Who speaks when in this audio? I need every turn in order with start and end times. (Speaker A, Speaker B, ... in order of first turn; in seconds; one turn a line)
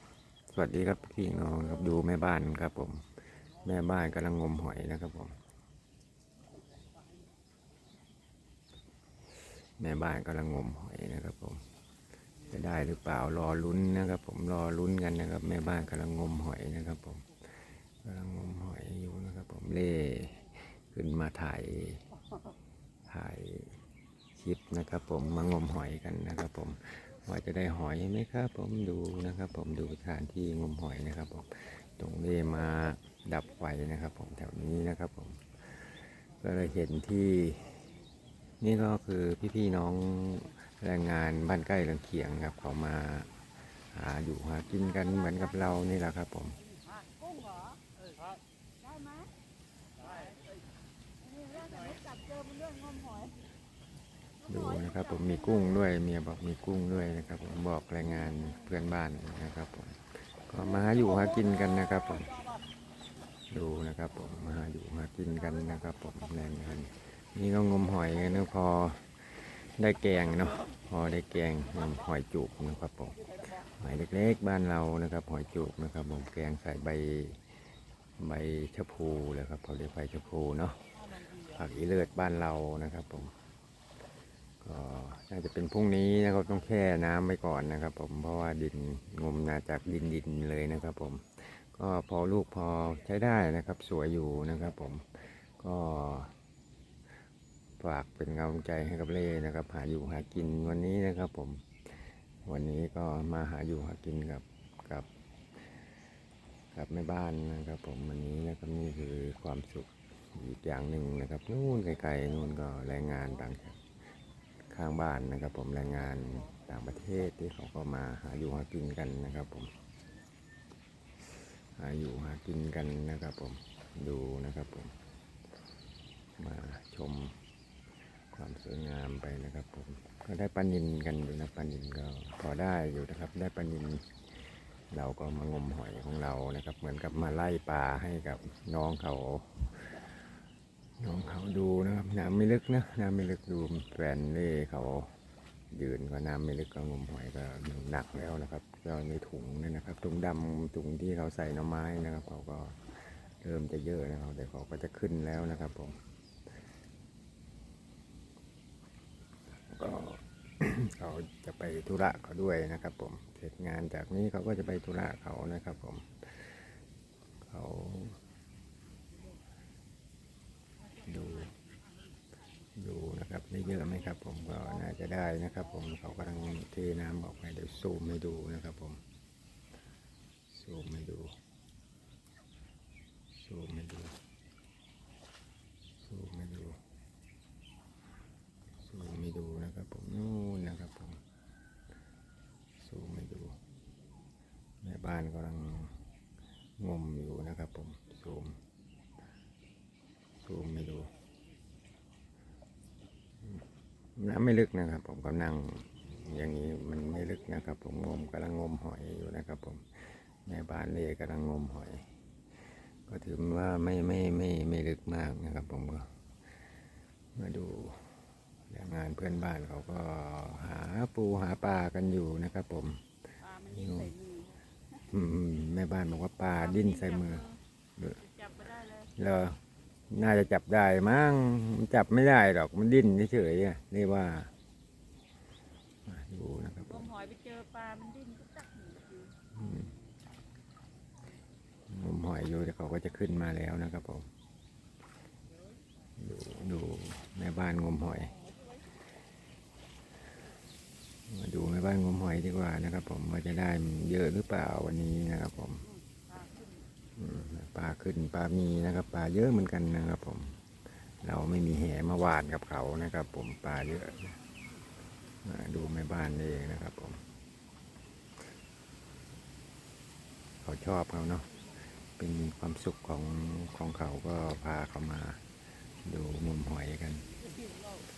Speaker A: 0.5-5.3
Speaker A: 9.8-11.6
Speaker A: 12.5-22.0
Speaker A: 23.1-23.8
Speaker A: 24.3-37.8
Speaker A: 38.6-46.6
Speaker B: 47.1-47.8
Speaker B: 48.8-49.3
Speaker B: 51.2-53.4
Speaker A: 54.5-62.4
Speaker A: 63.5-77.4
Speaker A: 78.2-83.3
Speaker A: 84.6-96.3
Speaker A: 97.8-105.1
Speaker A: 106.7-113.8
Speaker A: 114.6-119.7
Speaker A: 121.7-124.9
Speaker A: 126.4-127.4
Speaker A: 128.3-140.2
Speaker A: 141.0-145.2
Speaker A: 145.7-156.0
Speaker A: 159.6-166.7
Speaker A: 167.4-168.2
Speaker A: 171.0-171.5
Speaker A: 172.8-179.0
Speaker A: 180.5-181.3
Speaker A: 183.3-184.2
Speaker A: 186.0-186.8
Speaker A: 188.8-191.2
Speaker A: 192.8-193.6
Speaker A: 194.8-196.0
Speaker A: 196.8-198.6
Speaker A: 200.4-201.1
Speaker A: 204.2-212.1
Speaker A: 213.1-216.1
Speaker A: 217.3-218.2
Speaker A: 218.7-224.1
Speaker B: 223.4-224.6
Speaker A: 225.1-227.4
Speaker B: 226.6-227.6
Speaker B: 228.2-229.1
Speaker A: 229.1-229.6
Speaker A: 230.1-234.5
Speaker A: 236.1-237.1
Speaker B: 236.9-239.4
Speaker A: 239.5-239.9
Speaker A: 241.9-244.3
Speaker A: 246.2-248.4
Speaker A: 251.3-255.8
Speaker B: 255.9-256.8
Speaker A: 257.1-264.4
Speaker A: 265.4-267.2
Speaker A: 270.6-271.6
Speaker A: 272.2-275.4
Speaker A: 276.0-277.3